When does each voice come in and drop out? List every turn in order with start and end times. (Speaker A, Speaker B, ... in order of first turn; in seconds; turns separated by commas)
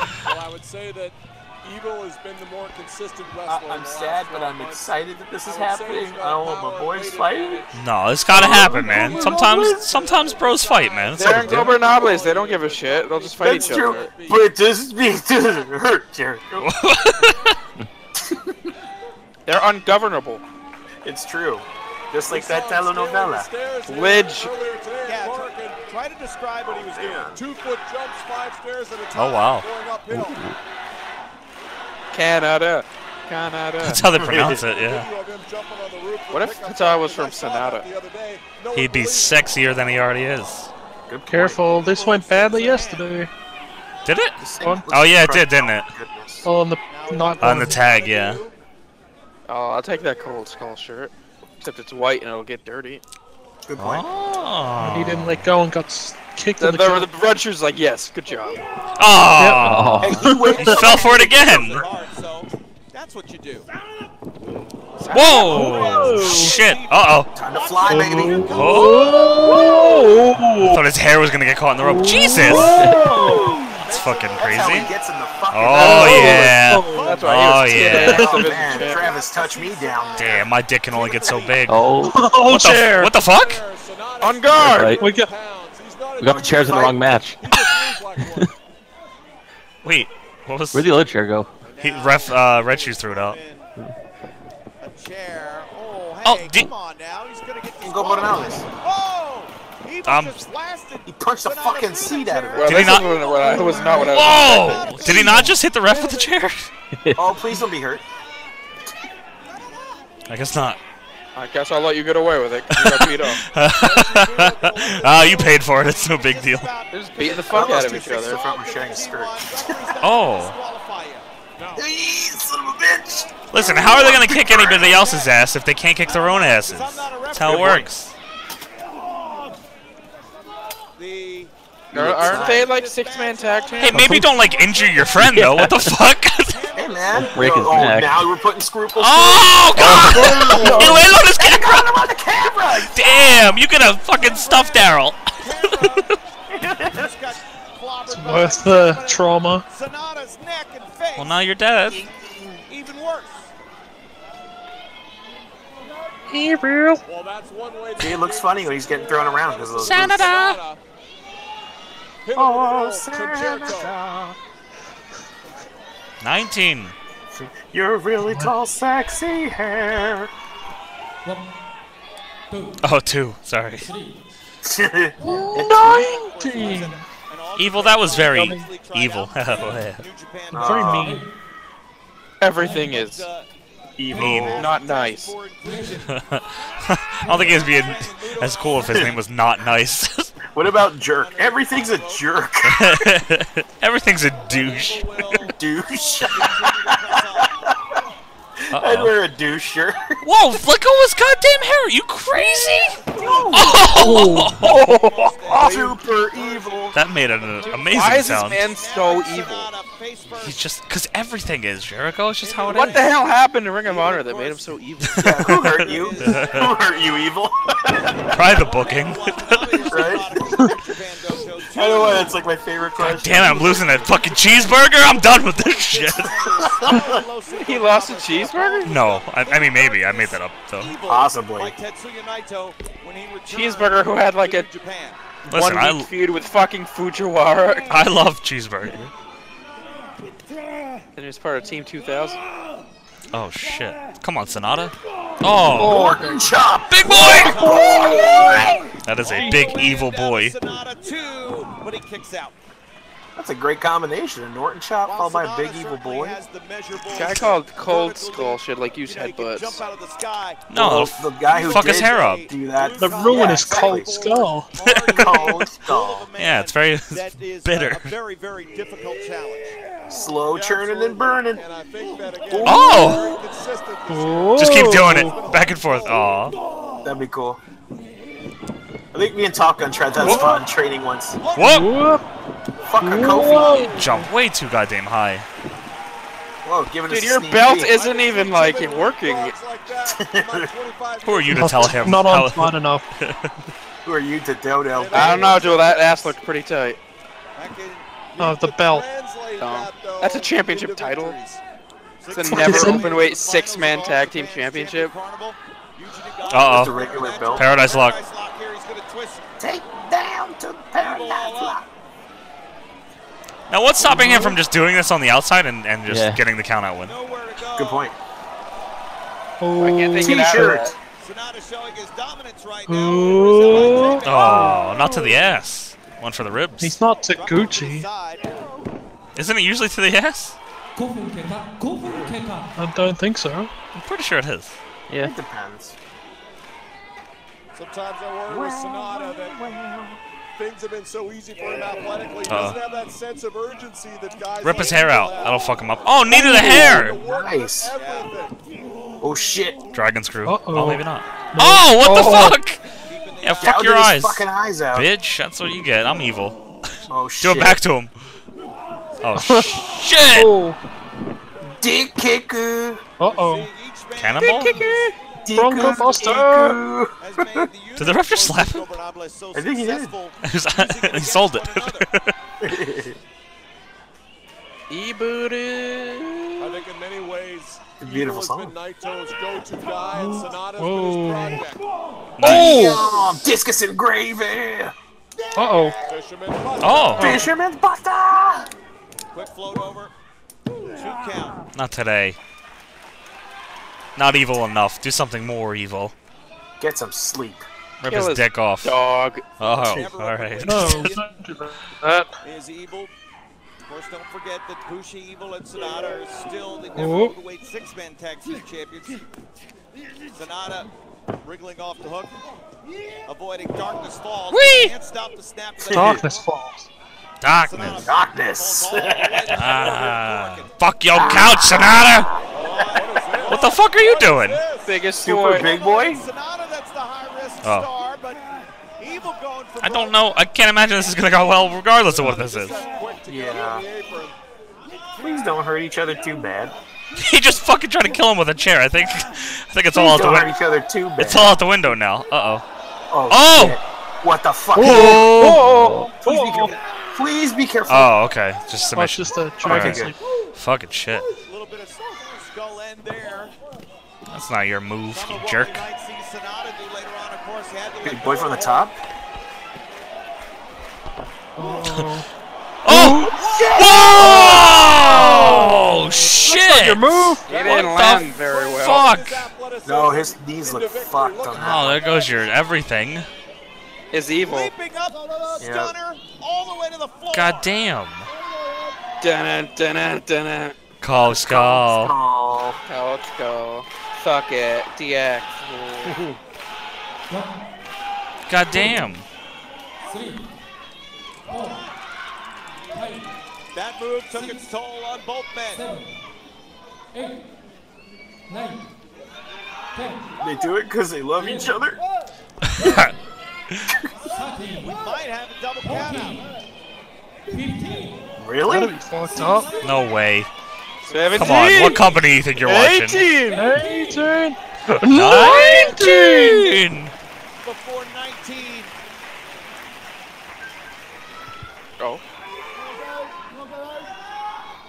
Speaker A: 0.2-7.8, Speaker B: 3.5-7.7, Speaker C: 7.7-11.8, Speaker B: 8.3-10.0, Speaker A: 8.5-14.5, Speaker D: 11.1-14.1, Speaker B: 13.4-16.7, Speaker C: 16.6-17.6, Speaker B: 18.2-18.6, Speaker D: 19.4-20.4, Speaker B: 21.0-23.5, Speaker A: 22.2-25.8, Speaker D: 23.9-24.5, Speaker E: 25.0-27.3, Speaker B: 26.6-27.4, Speaker A: 27.3-30.5, Speaker C: 29.1-29.7, Speaker F: 30.1-30.5, Speaker D: 32.1-34.0, Speaker C: 33.8-35.1, Speaker B: 34.2-34.6, Speaker A: 34.4-39.5, Speaker D: 36.3-37.9, Speaker C: 38.7-40.7, Speaker B: 41.1-41.6, Speaker G: 41.3-43.3, Speaker E: 41.6-43.1, Speaker C: 44.0-44.4, Speaker B: 44.4-46.5, Speaker G: 44.6-44.9, Speaker C: 44.9-45.9, Speaker G: 46.4-47.8, Speaker E: 46.9-48.5, Speaker C: 47.4-48.4, Speaker D: 49.5-53.0, Speaker B: 53.6-54.0, Speaker C: 53.8-55.5, Speaker G: 54.8-57.1, Speaker D: 56.6-58.6, Speaker C: 59.0-61.8, Speaker G: 59.4-60.8, Speaker F: 59.5-60.3, Speaker B: 60.0-61.9, Speaker E: 60.5-63.7, Speaker E: 65.0-69.8, Speaker C: 65.1-67.3, Speaker G: 65.4-66.5, Speaker B: 67.3-70.2, Speaker G: 67.8-70.8, Speaker C: 68.5-69.1, Speaker C: 70.6-72.8, Speaker G: 71.8-73.7, Speaker B: 72.5-73.8, Speaker F: 72.6-73.0, Speaker E: 73.7-75.1, Speaker C: 73.8-74.9, Speaker B: 74.4-76.5, Speaker C: 75.5-78.4, Speaker G: 75.7-77.2, Speaker E: 76.9-77.5, Speaker D: 77.0-79.1, Speaker G: 77.8-78.4, Speaker B: 78.0-80.5, Speaker E: 78.1-81.6, Speaker C: 80.2-81.8, Speaker F: 81.7-82.3, Speaker G: 82.0-83.2, Speaker C: 82.4-83.6, Speaker A: 83.1-88.5, Speaker D: 84.2-85.0, Speaker F: 84.6-85.0, Speaker G: 85.0-85.3, Speaker F: 86.2-88.5, Speaker B: 86.2-87.1, Speaker C: 89.8-90.9, Speaker F: 90.7-91.5, Speaker E: 91.6-93.7, Speaker C: 91.8-93.4, Speaker E: 94.8-106.3, Speaker C: 96.2-96.7, Speaker B: 97.8-98.7, Speaker C: 100.0-100.4, Speaker B: 101.0-103.0, Speaker D: 102.5-105.0, Speaker C: 102.6-103.2, Speaker G: 103.3-104.2, Speaker C: 103.9-106.7, Speaker G: 105.2-105.5, Speaker F: 107.0-107.4, Speaker B: 107.1-108.0, Speaker C: 110.3-110.8, Speaker D: 111.3-113.4, Speaker C: 112.7-116.7, Speaker E: 113.8-121.3, Speaker A: 114.0-115.2, Speaker D: 116.9-118.4, Speaker B: 117.5-119.9, Speaker C: 120.0-120.5, Speaker A: 121.6-121.9, Speaker B: 121.7-125.1, Speaker C: 123.5-128.1, Speaker E: 124.8-125.4, Speaker E: 126.0-127.9, Speaker B: 127.4-127.9, Speaker E: 130.9-135.4, Speaker B: 131.9-132.7, Speaker D: 131.9-134.0, Speaker C: 133.8-136.6, Speaker F: 133.9-134.3, Speaker F: 135.2-136.0, Speaker E: 136.5-137.7, Speaker B: 136.7-143.4, Speaker F: 137.1-138.3, Speaker C: 138.9-141.9, Speaker F: 139.8-141.0, Speaker C: 142.8-146.1, Speaker E: 144.1-146.2, Speaker B: 146.5-147.1, Speaker E: 146.7-151.4, Speaker G: 148.1-149.6, Speaker C: 151.2-152.0, Speaker B: 151.9-152.6, Speaker E: 152.7-153.5, Speaker G: 156.3-157.0, Speaker A: 157.0-160.8, Speaker B: 158.0-160.3, Speaker C: 159.8-160.6, Speaker A: 162.2-163.9, Speaker B: 162.3-164.4, Speaker C: 166.2-166.9, Speaker B: 167.3-170.3, Speaker G: 168.2-168.5, Speaker H: 171.2-171.5, Speaker H: 172.5-172.8, Speaker C: 172.8-173.9, Speaker H: 173.8-174.2, Speaker B: 174.6-176.0, Speaker G: 175.2-177.0, Speaker E: 175.7-181.0, Speaker C: 177.6-180.0, Speaker G: 178.2-178.7, Speaker B: 180.5-181.2, Speaker G: 180.5-181.2, Speaker D: 182.4-183.3, Speaker H: 182.5-183.0, Speaker E: 182.6-183.5, Speaker B: 184.0-184.7, Speaker H: 184.1-184.5, Speaker C: 184.1-184.6, Speaker E: 184.2-186.1, Speaker D: 184.5-185.3, Speaker H: 185.6-186.1, Speaker C: 186.1-190.3, Speaker E: 187.2-189.2, Speaker B: 188.9-189.1, Speaker B: 190.5-193.1, Speaker E: 191.2-192.3, Speaker C: 192.6-195.4, Speaker E: 194.5-197.5, Speaker B: 195.6-198.0, Speaker B: 198.6-200.2, Speaker C: 198.7-199.1, Speaker C: 200.2-205.3, Speaker E: 203.1-203.8, Speaker B: 203.1-203.9, Speaker G: 203.9-204.7, Speaker E: 204.6-210.6, Speaker B: 205.5-207.0, Speaker C: 206.9-208.6, Speaker D: 207.7-209.7, Speaker C: 210.4-213.1, Speaker E: 212.4-213.2, Speaker D: 212.7-215.3, Speaker E: 213.8-214.8, Speaker C: 215.1-216.7, Speaker B: 215.2-218.4, Speaker E: 215.7-216.7, Speaker E: 218.2-222.5, Speaker C: 218.3-220.0, Speaker B: 219.8-220.7, Speaker B: 221.7-224.1, Speaker C: 223.0-226.4, Speaker E: 223.1-235.2, Speaker B: 226.6-227.2, Speaker D: 227.5-228.9, Speaker C: 228.8-230.9, Speaker B: 231.1-231.7, Speaker D: 233.5-234.7, Speaker C: 235.5-236.1, Speaker D: 235.5-238.0, Speaker C: 237.8-239.0, Speaker D: 241.2-242.4, Speaker C: 243.3-246.1, Speaker G: 245.7-246.5, Speaker B: 245.8-248.9, Speaker C: 247.0-247.6, Speaker E: 247.1-252.5, Speaker G: 247.4-248.6, Speaker C: 249.0-250.5, Speaker B: 253.3-256.4, Speaker E: 255.0-260.6, Speaker D: 257.1-259.8, Speaker C: 260.7-262.5, Speaker B: 260.7-264.3, Speaker E: 261.5-269.8, Speaker G: 263.0-264.7, Speaker C: 264.8-265.6, Speaker B: 265.2-266.3, Speaker C: 266.4-268.1, Speaker B: 270.1-271.6, Speaker A: 270.5-276.3, Speaker C: 272.6-273.3, Speaker G: 272.7-273.2, Speaker G: 274.1-275.4, Speaker C: 274.6-276.6, Speaker B: 277.0-277.6, Speaker B: 279.1-281.4, Speaker G: 280.2-280.5, Speaker A: 280.2-280.6, Speaker E: 281.5-281.8, Speaker C: 281.5-281.9, Speaker G: 281.6-282.2, Speaker B: 282.9-284.0, Speaker G: 283.0-284.3, Speaker A: 283.4-283.8, Speaker C: 283.8-285.4, Speaker B: 286.6-288.0, Speaker D: 287.1-289.5, Speaker A: 287.8-292.1, Speaker B: 290.1-290.7, Speaker C: 291.2-293.5, Speaker G: 291.5-293.1, Speaker B: 294.0-295.7, Speaker A: 294.9-296.4, Speaker D: 295.1-297.0, Speaker E: 297.6-298.1, Speaker A: 298.4-301.6, Speaker G: 298.4-299.1, Speaker D: 299.6-301.4, Speaker E: 302.2-309.4, Speaker D: 302.3-305.1, Speaker G: 302.4-303.1, Speaker C: 306.5-308.2, Speaker B: 306.5-307.7, Speaker B: 309.6-311.8, Speaker E: 310.9-311.8, Speaker C: 313.7-317.1, Speaker G: 314.0-314.6, Speaker F: 316.1-316.4, Speaker E: 317.0-318.1, Speaker B: 317.7-318.1, Speaker G: 319.6-320.9, Speaker D: 319.8-320.9, Speaker B: 320.2-320.9, Speaker E: 321.2-324.8, Speaker G: 322.9-325.3, Speaker C: 324.2-326.9, Speaker G: 326.8-328.1, Speaker E: 327.3-328.5, Speaker C: 329.3-330.6, Speaker H: 330.9-332.7, Speaker G: 332.8-333.7, Speaker C: 333.9-334.8, Speaker B: 335.1-335.9, Speaker A: 337.7-339.6, Speaker B: 338.5-340.2, Speaker A: 340.6-348.5, Speaker C: 342.5-342.8, Speaker C: 344.6-347.2, Speaker G: 346.3-347.0, Speaker B: 347.0-347.9, Speaker E: 347.9-348.3, Speaker B: 349.2-349.8, Speaker C: 349.9-352.8, Speaker G: 350.4-352.6, Speaker E: 353.0-353.9, Speaker C: 353.4-356.6, Speaker B: 353.6-355.1, Speaker B: 357.1-357.8, Speaker C: 357.4-358.1, Speaker C: 359.2-360.5, Speaker G: 359.4-360.8, Speaker B: 361.8-363.0, Speaker G: 363.2-363.7, Speaker E: 363.2-365.0, Speaker C: 364.2-364.8, Speaker G: 364.4-366.8, Speaker B: 365.4-367.7, Speaker E: 365.8-366.3, Speaker E: 367.2-372.1, Speaker C: 368.0-368.9, Speaker B: 369.5-370.1, Speaker C: 370.4-372.3, Speaker B: 372.6-373.2, Speaker D: 374.9-376.8, Speaker A: 376.6-381.8, Speaker B: 378.0-378.7, Speaker G: 380.1-381.7, Speaker C: 382.4-382.9, Speaker G: 382.4-383.1, Speaker B: 382.4-384.9, Speaker G: 385.5-386.0, Speaker A: 386.1-387.4, Speaker C: 386.8-387.4, Speaker G: 387.1-387.5, Speaker B: 387.2-388.7, Speaker E: 389.3-390.1, Speaker E: 390.9-391.6, Speaker C: 391.7-392.4, Speaker C: 394.1-396.1, Speaker B: 396.8-397.6, Speaker C: 398.0-399.0, Speaker D: 398.0-399.4, Speaker C: 399.6-401.1, Speaker E: 399.6-401.3, Speaker G: 400.6-402.3, Speaker E: 402.4-403.1, Speaker E: 403.9-409.2, Speaker G: 406.9-407.3, Speaker E: 410.3-410.9, Speaker E: 411.4-412.3, Speaker E: 413.2-416.4, Speaker C: 414.5-414.9, Speaker B: 415.8-416.2, Speaker G: 415.9-416.9, Speaker C: 417.4-418.1, Speaker E: 417.6-420.7, Speaker B: 418.0-419.7, Speaker C: 419.5-422.3, Speaker B: 421.1-422.4, Speaker E: 422.5-423.5, Speaker A: 422.6-425.0, Speaker C: 423.4-424.6, Speaker D: 424.8-425.7, Speaker B: 425.2-426.2, Speaker E: 425.6-430.2, Speaker C: 427.6-427.9, Speaker C: 429.8-432.8, Speaker A: 432.1-434.3, Speaker B: 433.3-433.9, Speaker B: 435.2-436.7, Speaker C: 437.1-440.6, Speaker B: 439.9-441.6, Speaker C: 441.2-442.6, Speaker B: 443.1-445.6, Speaker C: 443.3-443.8, Speaker G: 444.7-446.8, Speaker C: 444.8-445.7, Speaker B: 446.2-448.1, Speaker C: 447.9-451.3, Speaker G: 448.9-450.2, Speaker B: 449.6-450.1, Speaker E: 451.4-453.5, Speaker C: 454.3-455.8, Speaker E: 455.1-458.9, Speaker B: 458.0-458.9, Speaker G: 461.6-462.2, Speaker C: 462.8-469.5, Speaker G: 462.9-463.4, Speaker B: 463.3-465.7, Speaker G: 465.1-467.5, Speaker D: 467.5-469.1, Speaker A: 467.5-472.3, Speaker B: 469.8-472.1, Speaker C: 471.5-473.3, Speaker D: 474.1-474.7, Speaker E: 474.5-477.7, Speaker B: 475.6-475.9, Speaker C: 477.3-478.3, Speaker D: 479.2-480.8, Speaker C: 481.0-482.1, Speaker B: 481.2-482.8, Speaker D: 482.9-486.2, Speaker B: 486.0-486.4, Speaker H: 487.3-487.6, Speaker C: 488.5-489.2, Speaker H: 488.7-489.1, Speaker H: 490.1-490.4, Speaker H: 491.5-491.8, Speaker H: 492.9-493.2, Speaker E: 493.7-495.8, Speaker H: 495.7-496.1, Speaker H: 498.5-498.8, Speaker H: 499.9-500.3, Speaker B: 500.4-502.0, Speaker H: 501.4-501.7, Speaker C: 502.7-503.1, Speaker H: 504.3-505.0, Speaker E: 504.8-506.4, Speaker H: 505.8-506.6, Speaker H: 507.5-508.2, Speaker B: 508.4-508.9, Speaker G: 508.6-509.7, Speaker E: 509.3-510.0, Speaker C: 509.8-510.5, Speaker E: 511.0-511.7, Speaker D: 511.1-513.6, Speaker C: 511.3-513.3, Speaker H: 513.5-514.3, Speaker G: 513.5-516.7, Speaker C: 515.0-517.1, Speaker E: 517.6-518.9